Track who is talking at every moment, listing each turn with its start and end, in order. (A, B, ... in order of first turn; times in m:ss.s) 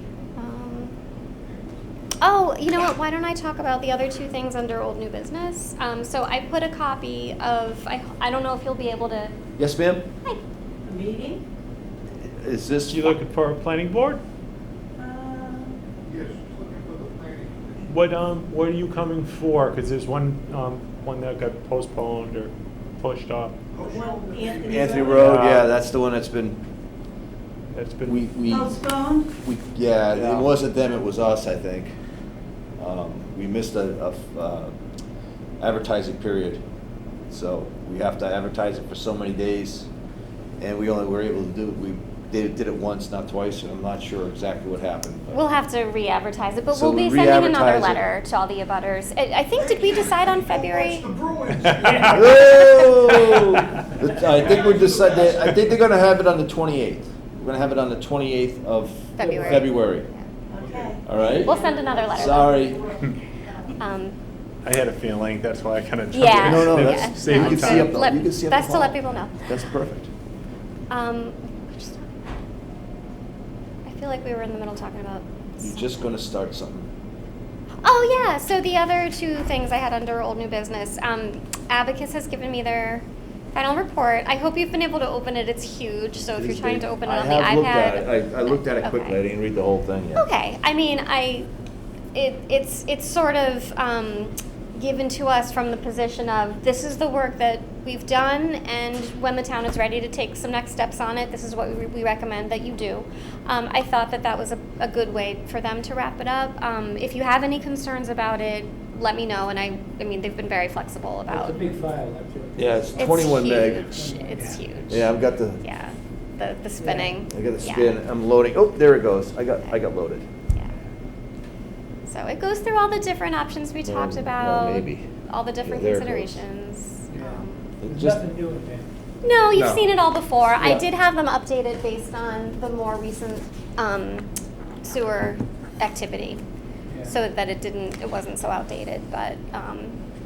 0:00.4-0:00.9 A
0:02.2-0:09.3 A
0:09.6-0:10.0 B
0:10.8-0:11.4 C
0:12.3-0:13.1 B
0:12.9-0:14.2 D
0:15.0-0:15.8 C
0:16.1-0:17.4 E
0:17.8-0:23.5 D
0:23.8-0:25.3 E
0:23.9-0:25.1 C
0:24.6-0:26.6 B
0:25.1-0:25.6 D
0:27.7-0:28.2 D
0:28.0-0:31.9 B
0:28.5-0:29.3 C
0:30.1-0:30.4 D
0:32.8-0:34.7 B
0:35.6-0:36.6 B
0:37.3-0:39.9 B
0:40.6-0:45.4 B
0:45.3-0:51.1 A
0:46.7-0:48.0 B
0:50.9-0:52.4 E
0:51.7-0:52.1 D
0:52.1-1:00.1 B
0:54.4-0:55.3 E
0:59.2-1:00.2 A
0:59.2-0:59.6 F
1:00.6-1:01.0 C
1:00.6-1:00.9 E
1:01.0-1:01.6 B
1:01.2-1:02.8 A
1:01.5-1:02.6 C
1:02.1-1:02.9 B
1:03.8-1:04.2 A
1:04.6-1:07.9 D
1:06.1-1:09.5 A
1:06.4-1:10.1 B
1:10.9-1:12.1 A
1:13.8-1:16.0 A
1:15.6-1:16.9 B
1:17.8-1:29.2 A
1:26.4-1:30.2 B
1:30.1-1:31.5 A
1:32.1-1:51.6 A
1:51.3-1:55.0 F
1:52.6-1:53.9 B
1:53.0-1:58.0 A
1:54.9-1:55.6 B
1:56.8-1:57.2 F
1:57.3-2:00.2 B
2:02.1-2:07.7 A
2:03.8-2:05.0 B
2:05.6-2:06.4 B
2:07.1-2:08.9 F
2:07.8-2:08.2 B
2:09.2-2:14.3 A
2:09.5-2:09.9 B
2:10.6-2:10.8 B
2:14.8-2:16.4 A
2:16.9-2:17.2 F
2:17.1-2:20.0 A